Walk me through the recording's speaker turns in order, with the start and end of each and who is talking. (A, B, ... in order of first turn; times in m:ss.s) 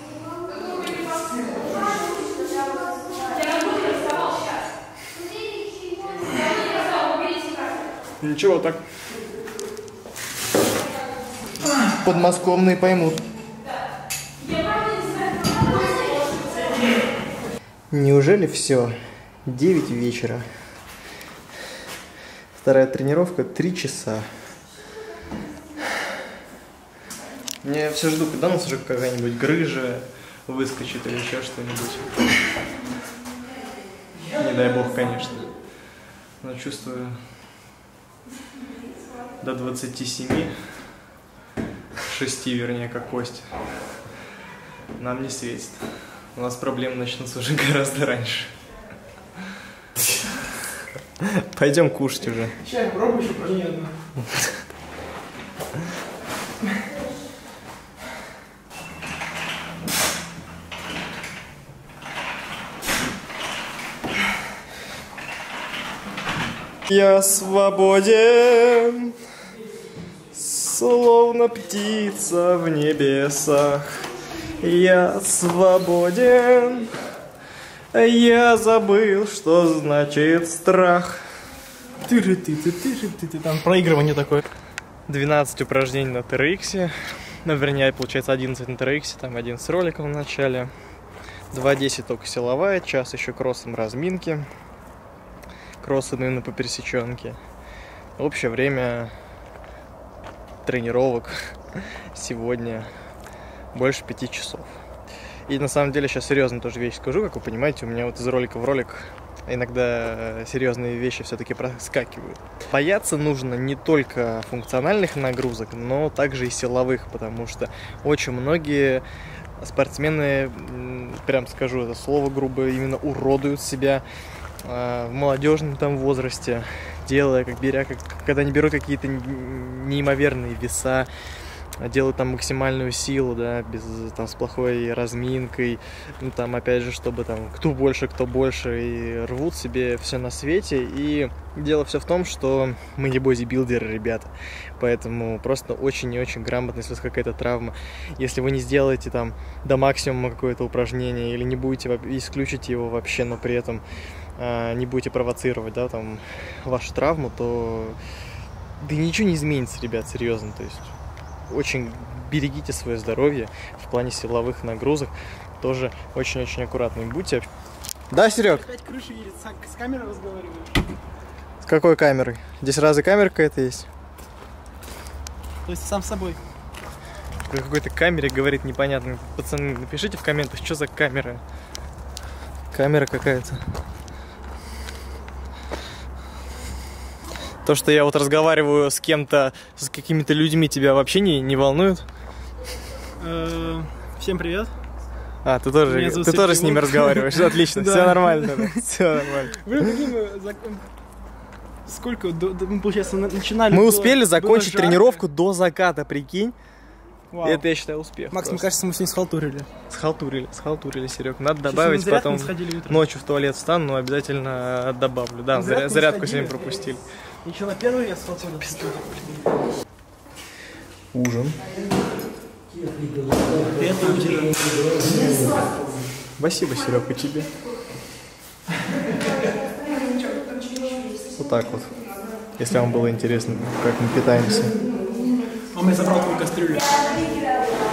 0:08.2-0:08.8 A
0:12.0-0:13.2 A
0:17.9-0:20.5 A
0:22.6-0:24.3 A
0:27.6-0:32.1 A
0:34.4-0:35.4 A
0:36.4-0:37.2 A
0:39.4-0:40.5 A
0:42.1-0:43.5 A
0:45.0-0:45.8 A
0:46.4-0:48.5 A
0:51.2-0:52.6 A
0:52.6-0:53.9 B
0:54.2-0:54.6 A
1:06.9-1:09.2 A
1:10.3-1:14.0 A
1:14.6-1:16.9 A
1:17.9-1:21.3 A
1:22.0-1:24.4 B
1:25.1-1:30.7 A
1:31.5-1:34.5 A
1:35.8-1:37.4 A
1:38.2-1:39.1 A
1:40.6-1:42.9 A
1:43.7-1:44.7 A
1:45.5-1:59.0 A
1:59.6-2:04.0 A
2:04.6-2:11.1 A
2:11.8-2:33.8 A
2:34.4-2:38.0 A
2:38.8-2:40.9 A
2:41.5-2:47.5 A
2:48.1-2:48.6 A
2:48.3-2:50.8 B
2:51.6-2:53.9 A
2:55.6-2:56.4 B
2:57.5-3:01.4 A
3:02.7-3:03.6 A
3:07.6-3:12.0 A
3:13.2-3:14.7 B
3:15.4-3:19.7 A
3:15.9-3:18.8 B
3:19.5-3:20.9 B
3:21.9-3:25.2 B
3:23.7-3:26.6 A
3:27.3-3:27.7 B
3:27.4-3:28.7 A
3:28.3-3:29.7 B
3:29.9-3:37.0 A
3:31.6-3:33.0 B
3:35.5-3:36.8 B
3:37.4-3:39.4 B
3:41.1-3:41.6 A
3:43.7-3:44.7 B
3:46.4-3:47.5 A
3:51.4-3:51.9 A
3:52.6-3:54.7 A
3:55.7-3:56.9 B